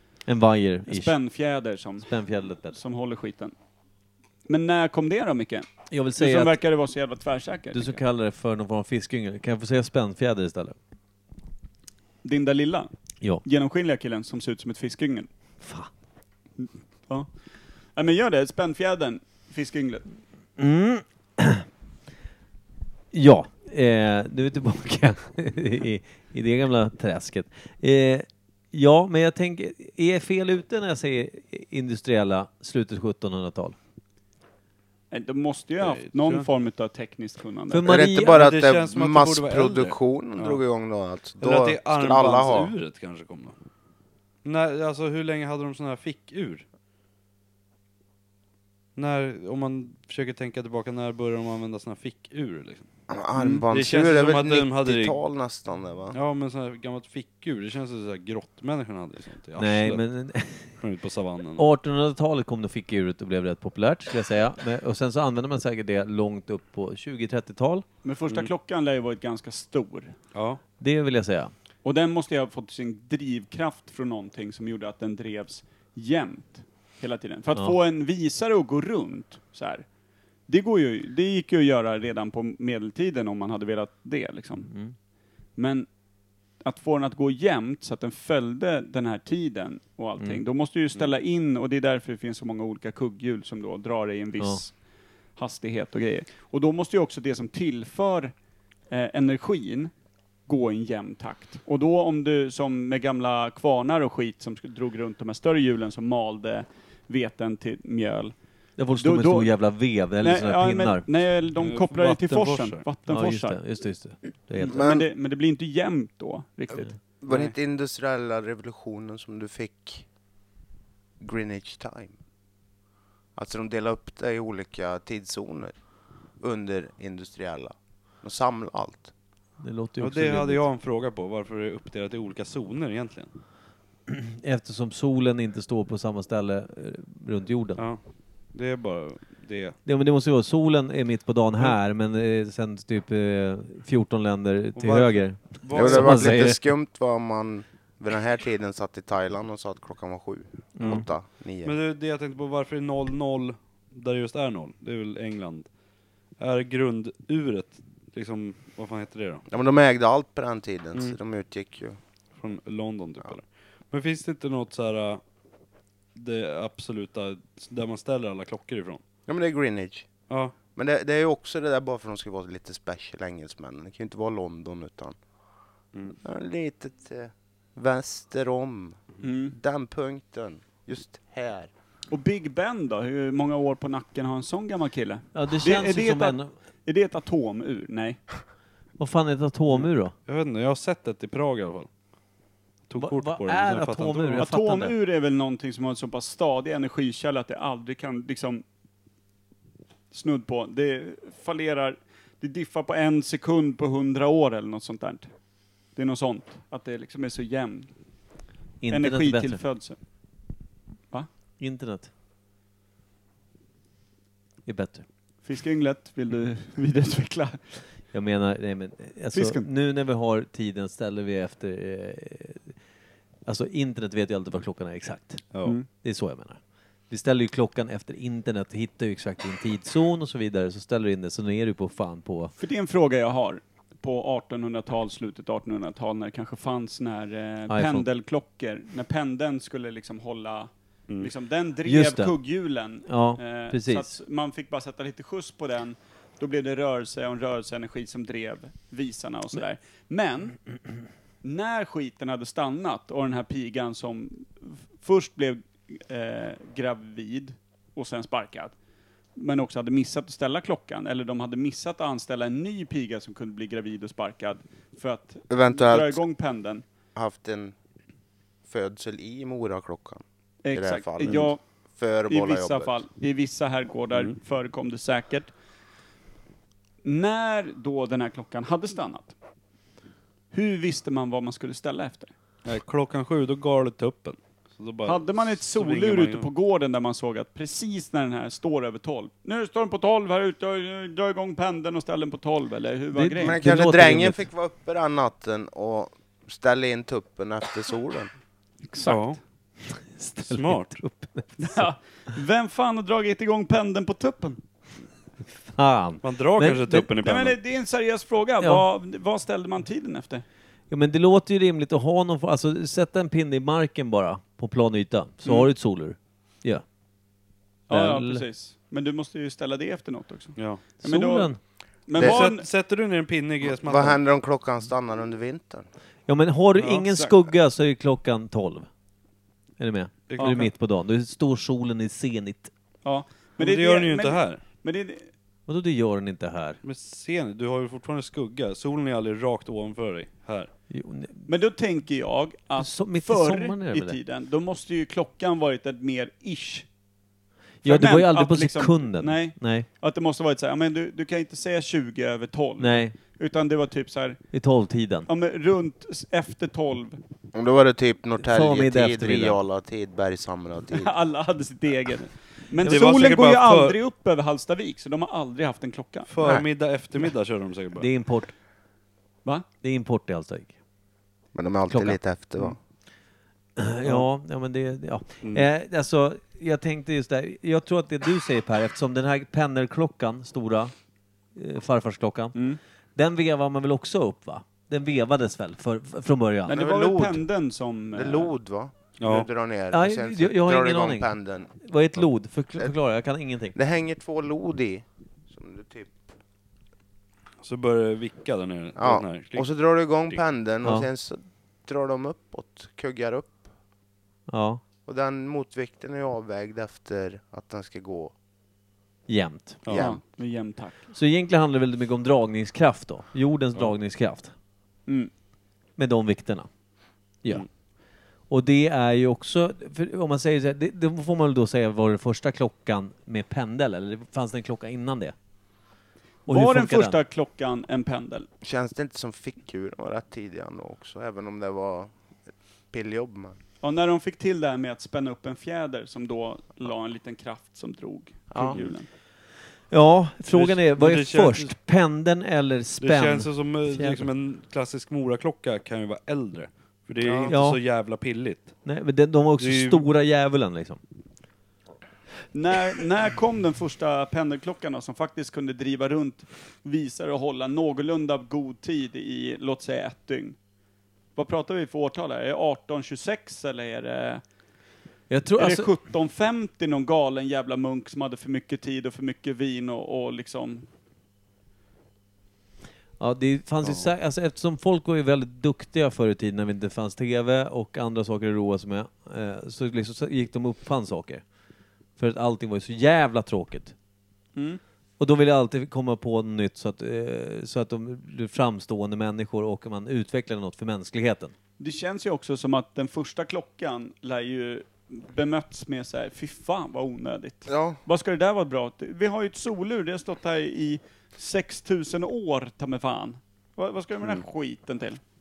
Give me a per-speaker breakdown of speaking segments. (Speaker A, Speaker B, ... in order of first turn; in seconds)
Speaker A: 0.3-1.1, 2.0-2.8, 5.9-6.5, 7.7-10.8, 15.6-15.9, 20.6-21.6, 23.1-33.8, 37.7-38.4, 59.6-60.8, 61.6-67.8, 70.8-71.5, 84.7-85.0, 108.8-111.0, 113.1-114.8, 129.6-130.7, 134.2-137.8, 139.8-146.6, 150.8-151.1, 185.3-186.5, 189.0-190.1, 193.0-194.9, 208.8-209.6, 211.6-212.1, 214.7-215.1, 218.1-222.7, 223.4-225.4, 226.0-226.6, 227.1-232.5, 237.7-238.1, 241.9-242.3, 243.1-244.1, 293.1-294.4, 299.9-301.8, 305.7-307.1, 310.9-316.8, 317.9-318.4, 321.0-321.6, 326.3-328.9, 329.8-332.7, 335.7-336.8, 340.9-341.5, 342.8-344.1, 347.8-349.9, 352.8-353.1, 354.5-355.3, 358.4-359.6, 368.0-368.5, 369.8-370.7, 371.9-372.2, 373.8-380.9, 381.6-382.6, 383.1-386.8, 389.9-393.8, 404.5-404.8, 409.3-409.8, 411.1-414.5, 416.0-416.7, 418.5-425.3, 426.5-427.2, 439.9-444.3, 447.5-447.8, 448.8-451.0, 465.3-465.9, 473.2-481.4, 482.2-483.9, 485.2-491.5
Speaker B: 0.9-2.1, 2.6-3.5, 4.5-8.0, 12.2-12.9, 13.4-15.3, 16.6-17.3, 17.9-20.0, 35.1-37.8, 53.4-53.6, 68.0-70.1, 71.8-79.8, 80.5-84.7, 85.5-85.9, 86.6-94.7, 95.4-98.3, 98.9-99.9, 100.5-108.3, 109.0-109.5, 110.2-113.6, 114.6-117.5, 179.2-179.6, 182.1-188.2, 194.4-198.6, 200.1-205.3, 205.9-207.9, 208.9-210.0, 215.4-217.6, 219.3-219.7, 232.6-250.6, 251.4-258.7, 259.4-266.8, 270.6-271.6, 272.3-275.5, 277.0-279.3, 280.5-282.3, 285.1-293.6, 298.9-299.3, 301.6-304.6, 307.2-310.4, 317.9-321.5, 322.1-322.6, 333.0-335.3, 341.5-346.9, 347.8-354.4, 355.3-357.2, 360.9-366.3, 382.6-382.8, 386.7-388.5, 409.9-411.0, 426.5-428.5, 433.8-439.1, 452.5-460.6, 461.4-464.4, 465.6-470.9, 484.6-484.8, 491.8-505.2
Speaker C: 35.8-36.5, 38.3-40.6, 41.4-43.5, 44.4-46.6, 49.0-52.9, 53.7-55.2, 56.1-60.0, 60.8-61.7, 70.3-70.6, 111.6-112.8, 130.0-133.3, 137.8-139.8, 144.8-146.4, 151.6-155.7, 156.4-159.4, 162.4-165.2, 166.1-169.0, 189.7-191.9, 192.9-194.4, 282.6-286.5, 299.0-299.4, 300.4-301.0, 306.2-307.6, 320.6-320.8, 322.2-324.2, 326.8-327.0, 330.3-330.7, 333.6-334.6, 336.8-340.7, 362.8-364.0, 366.3-368.1, 389.2-389.5, 397.6-399.7, 409.8-410.1, 440.5-441.7, 443.0-448.7, 449.6-450.1
Speaker D: 37.8-42.7, 53.1-56.2, 114.6-115.1, 117.2-120.0, 121.2-122.1, 123.4-125.7, 126.4-129.1, 145.7-151.8, 159.5-162.0, 169.3-170.1, 170.7-175.2, 176.2-179.0, 179.5-181.7, 265.5-266.2, 267.1-267.7, 268.7-273.0, 293.4-298.3, 322.2-322.4, 323.6-325.9, 357.5-361.1, 366.4-366.7, 371.5-372.8, 386.7-387.4, 388.1-391.7, 393.7-396.3, 398.9-403.6, 405.1-408.3, 409.9-410.2, 428.6-432.1, 432.9-433.6, 438.5-438.8, 447.2-447.5, 497.7-498.0